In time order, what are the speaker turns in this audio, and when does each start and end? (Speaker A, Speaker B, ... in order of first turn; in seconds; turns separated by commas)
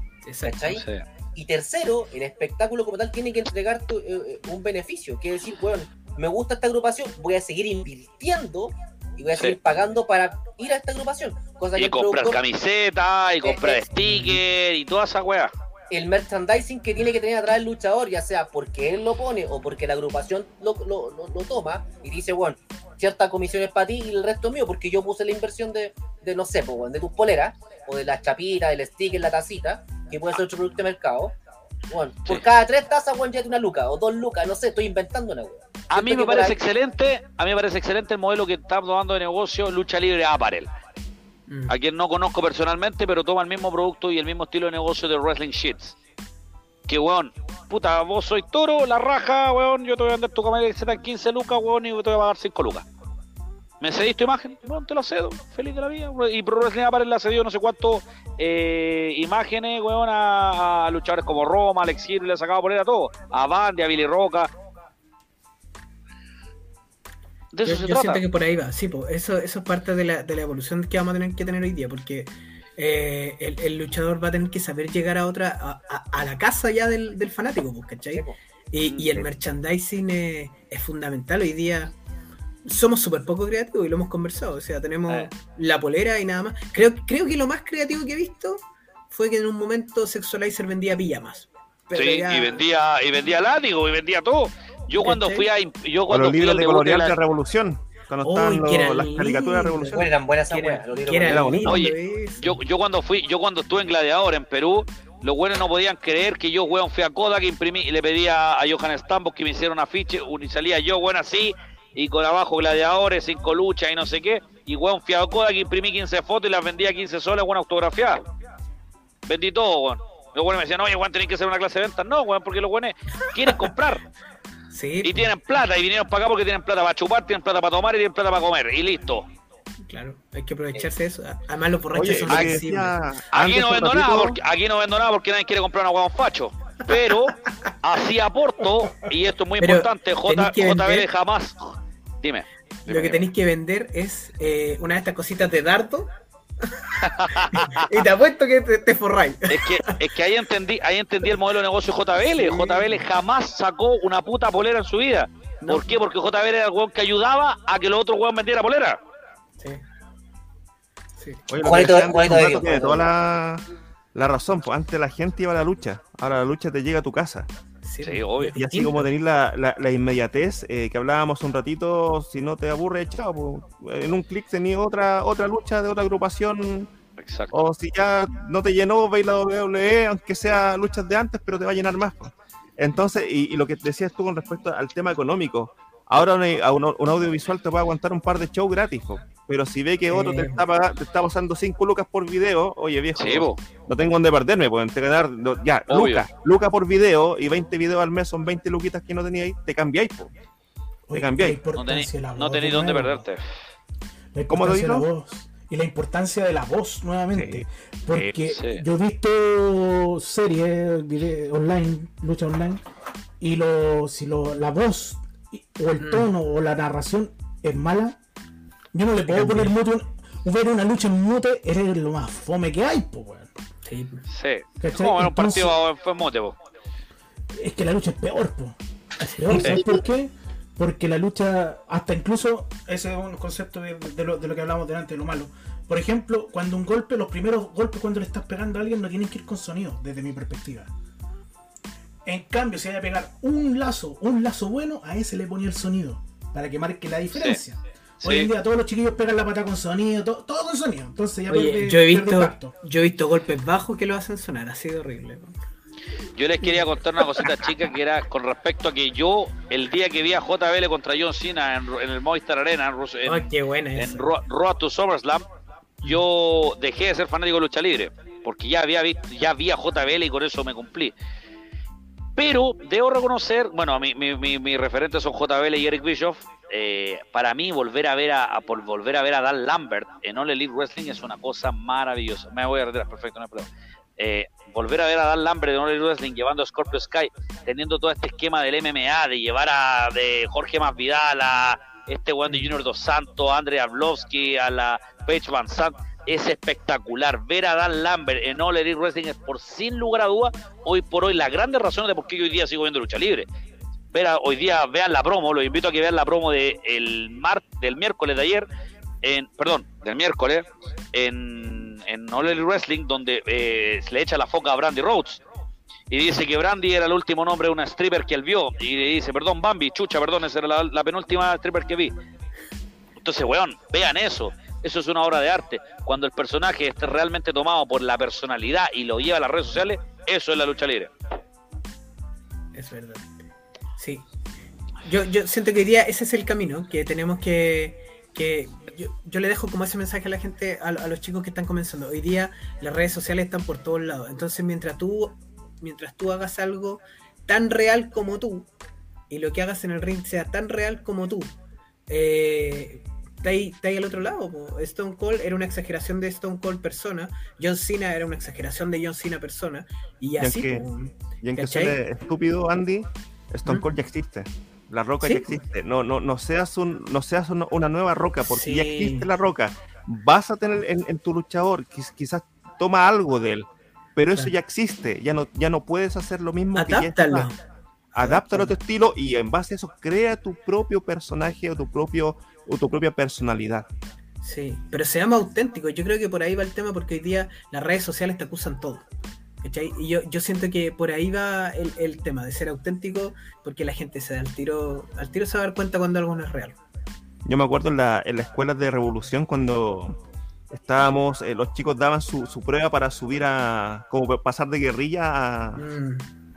Speaker A: 0.2-0.8, Speaker B: 0.4-12.4, Speaker C: 0.7-1.0, Speaker C: 11.8-15.5, Speaker B: 13.4-13.8, Speaker A: 14.1-14.4, Speaker B: 15.9-31.3, Speaker B: 31.9-36.6, Speaker C: 35.9-40.7, Speaker A: 41.5-41.8, Speaker C: 41.7-46.0, Speaker C: 46.9-52.9, Speaker C: 53.8-64.5, Speaker C: 67.5-68.2, Speaker A: 67.6-82.0, Speaker C: 78.8-79.2, Speaker A: 82.6-92.6, Speaker C: 91.9-97.2, Speaker A: 95.0-95.5, Speaker D: 96.1-100.1, Speaker A: 98.2-102.6, Speaker B: 99.9-101.7, Speaker D: 101.2-101.8, Speaker C: 101.7-118.2, Speaker C: 119.3-124.0, Speaker A: 124.7-125.3, Speaker C: 125.0-129.3, Speaker A: 129.8-132.9, Speaker D: 131.9-134.4, Speaker C: 133.3-143.3, Speaker A: 139.6-141.1, Speaker A: 142.8-150.0, Speaker C: 147.0-148.0, Speaker C: 149.5-159.0, Speaker A: 152.2-153.0, Speaker A: 155.6-156.0, Speaker A: 161.2-161.4, Speaker D: 161.5-167.5, Speaker B: 161.6-163.1, Speaker A: 167.8-169.1, Speaker C: 168.0-168.6, Speaker D: 168.6-176.9, Speaker C: 177.2-177.6, Speaker D: 177.5-200.3, Speaker A: 190.1-190.6, Speaker C: 193.2-193.6, Speaker C: 195.9-196.3, Speaker E: 201.1-203.2, Speaker D: 201.1-201.6, Speaker C: 201.8-203.4, Speaker E: 204.3-212.8, Speaker D: 204.5-205.1, Speaker D: 207.3-208.3, Speaker C: 208.5-208.8, Speaker E: 213.4-218.2, Speaker A: 216.0-216.3, Speaker E: 218.9-223.5, Speaker A: 219.3-219.7, Speaker A: 223.8-224.2, Speaker C: 224.3-226.6, Speaker E: 224.8-225.7, Speaker E: 227.6-240.9, Speaker A: 229.2-229.8, Speaker E: 242.2-252.7, Speaker C: 247.3-247.6, Speaker C: 248.2-248.5, Speaker A: 251.5-255.6, Speaker C: 256.4-265.4, Speaker A: 256.6-257.5, Speaker A: 263.2-264.3, Speaker C: 266.0-271.1, Speaker C: 272.4-303.4, Speaker C: 304.1-308.7, Speaker C: 309.2-315.4, Speaker C: 316.1-322.1, Speaker C: 323.2-331.1, Speaker A: 332.7-333.4, Speaker A: 334.0-334.2, Speaker A: 335.0-348.7, Speaker A: 349.3-351.5, Speaker A: 352.1-362.0, Speaker D: 360.4-360.9, Speaker D: 361.4-377.5, Speaker A: 365.2-365.6, Speaker A: 368.4-369.3, Speaker A: 376.7-377.6, Speaker D: 378.1-383.9, Speaker A: 378.2-378.7, Speaker A: 384.4-389.1, Speaker A: 389.6-396.8, Speaker D: 397.4-400.1, Speaker D: 400.7-405.8, Speaker A: 405.7-406.3